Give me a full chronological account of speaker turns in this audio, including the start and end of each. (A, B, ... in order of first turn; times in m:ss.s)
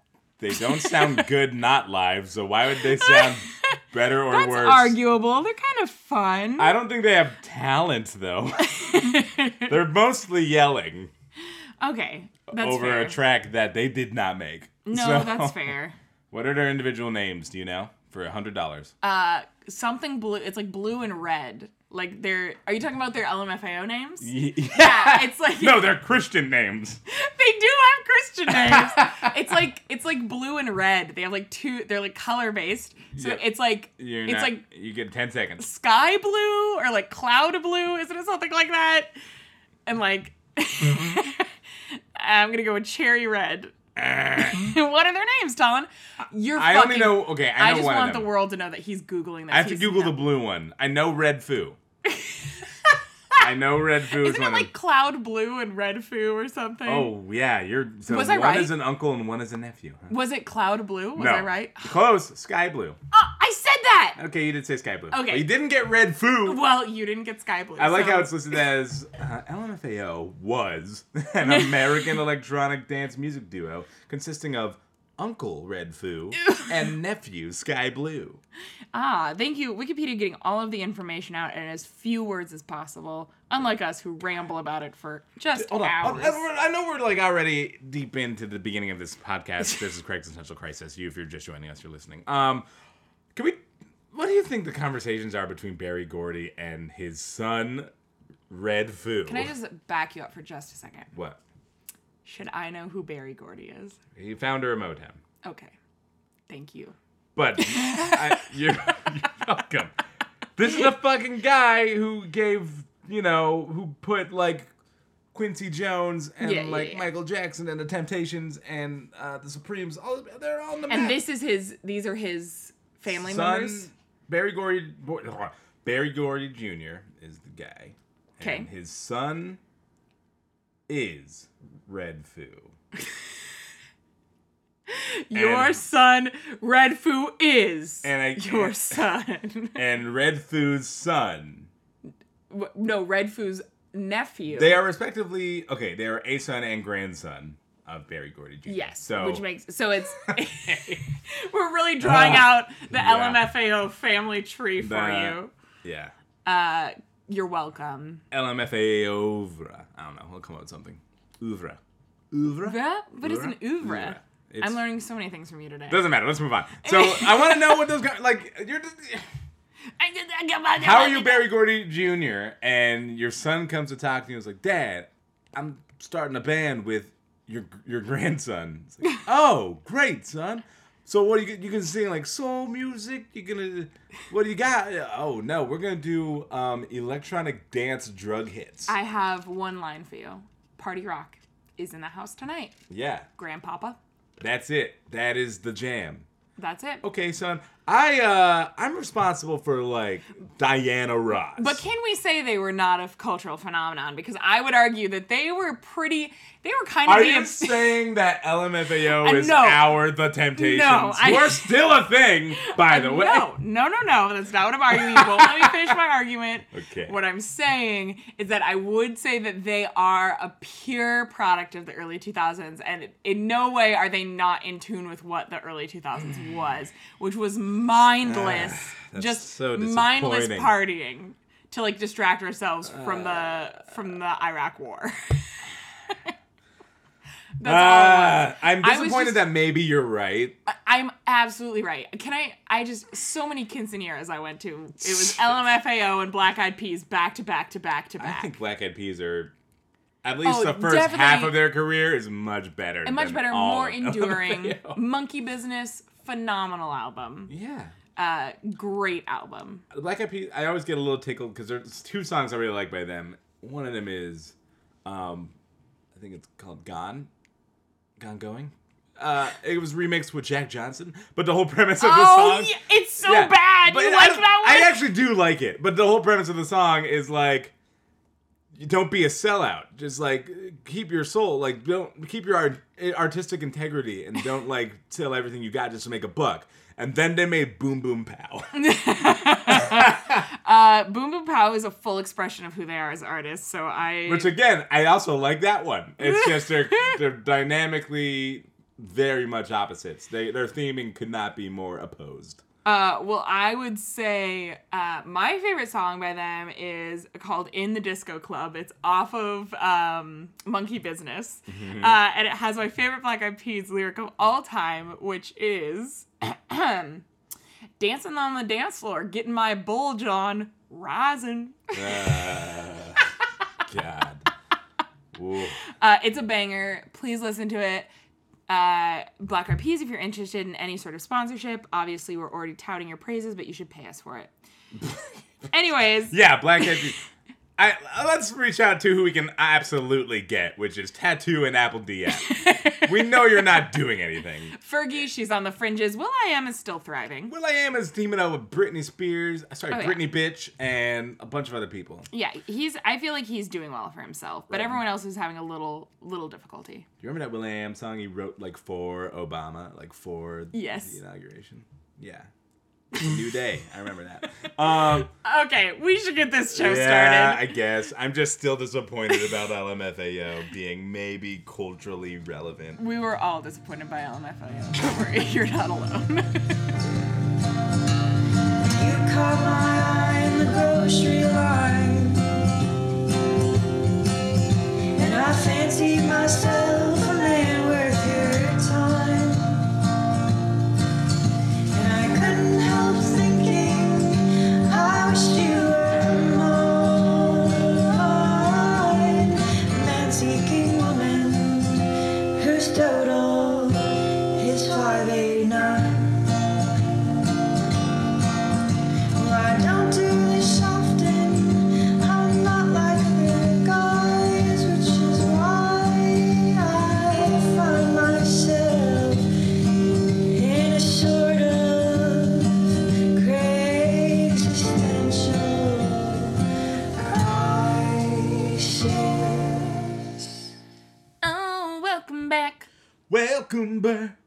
0:00.4-0:05.0 A
0:00.5-0:01.3 B
0:02.8-0:06.7 B
0:06.6-0:09.0 A
0:08.6-0:09.7 B
0:09.7-0:11.1 A
0:11.8-0:13.2 B
0:12.5-0:15.7 A
0:14.8-0:15.9 B
0:16.3-0:18.9 A
0:19.0-0:25.9 B
0:24.2-0:27.0 A
0:27.1-0:34.6 B
0:28.5-0:29.3 A
0:33.1-0:35.6 A
0:35.6-0:39.1 B
0:39.8-0:43.8 B
0:44.0-0:44.6 A
0:44.3-0:50.2 B
0:46.5-0:48.3 A
0:49.5-0:51.8 A
0:52.1-0:53.4 B
0:53.4-0:54.7 A
0:54.1-0:57.1 B
0:56.8-1:00.1 A
0:58.1-0:58.7 B
1:00.1-1:01.9 B
1:01.2-1:03.0 A
1:03.1-1:04.2 B
1:04.2-1:06.6 A
1:05.1-1:05.5 B
1:06.4-1:08.4 B
1:07.8-1:18.4 A
1:11.4-1:11.7 B
1:18.9-1:26.4 B
1:25.6-1:32.7 A
1:33.3-1:37.9 A
1:38.5-1:39.5 A
1:39.2-1:41.1 B
1:41.1-1:41.4 A
1:42.2-1:44.0 B
1:44.1-1:45.2 A
1:45.4-1:45.7 B
1:46.5-1:47.0 B
1:47.4-1:49.9 A
1:47.6-1:48.4 B
1:50.6-1:54.7 A
1:55.3-2:01.2 A
1:56.4-1:57.0 B
2:00.9-2:03.9 B
2:03.1-2:09.6 A
2:08.4-2:08.7 B
2:10.9-2:12.7 A
2:14.9-2:19.8 B
2:15.3-2:15.8 A
2:18.0-2:19.0 A
2:19.7-2:21.7 A
2:22.5-2:24.8 B
2:24.5-2:29.4 A
2:28.6-2:35.5 B
2:30.2-2:31.0 A
2:32.0-2:33.4 A
2:34.8-2:36.1 A
2:36.4-2:38.2 B
2:38.3-2:41.8 A
2:42.3-2:44.8 A
2:42.6-2:46.1 B
2:45.9-2:49.3 A
2:46.8-2:47.9 B
2:50.0-2:51.5 B
2:50.8-3:08.9 A
3:08.9-3:12.8 B
3:12.9-3:13.3 A
3:13.4-3:14.0 B
3:14.4-3:16.2 A
3:16.6-3:17.0 B
3:17.0-3:21.8 A
3:21.6-3:28.0 B
3:27.0-3:33.5 A
3:29.1-3:31.8 B
3:32.5-3:56.3 B
3:34.9-3:35.9 A
3:36.7-3:37.1 A
3:48.2-3:50.7 A
3:52.8-3:53.7 A
3:57.6-3:59.5 B
3:57.6-4:00.6 A
4:00.6-4:08.5 B
4:05.1-4:05.5 A
4:08.2-4:09.5 A
4:10.2-4:15.0 A
4:10.4-4:11.6 B
4:13.0-4:17.5 B
4:17.5-4:17.9 A
4:18.2-4:19.8 B
4:19.9-4:25.5 A
4:26.1-4:27.3 A
4:28.2-4:37.7 A
4:32.0-4:35.0 B
4:38.7-4:48.7 A
4:48.7-4:54.5 B
4:49.6-4:50.5 A
4:54.3-5:02.6 A
4:56.2-4:57.2 B
5:02.8-5:17.2 B
5:11.7-5:12.2 A
5:18.0-5:22.3 B
5:21.9-5:23.2 A
5:23.8-5:24.4 A
5:25.3-5:25.8 A
5:25.9-5:28.1 B
5:28.7-5:34.5 B
5:35.7-5:36.4 B
5:36.3-5:37.2 A
5:37.8-5:44.8 A
5:42.4-5:43.8 B
5:44.7-5:47.5 B
5:47.5-5:52.3 A
5:49.9-5:50.2 B
5:52.3-5:57.0 B
5:54.7-5:55.0 A
5:57.2-6:02.5 A
6:00.7-6:01.2 B
6:03.1-6:05.3 A
6:04.9-6:07.7 B
6:06.7-6:13.0 A
6:13.0-6:16.7 B
6:18.8-6:22.5 C
6:25.1-6:29.8 C
6:31.9-6:46.5 C
6:49.3-6:59.5 C
7:00.5-7:10.1 C
7:11.4-7:12.9 B
7:13.3-7:14.4 A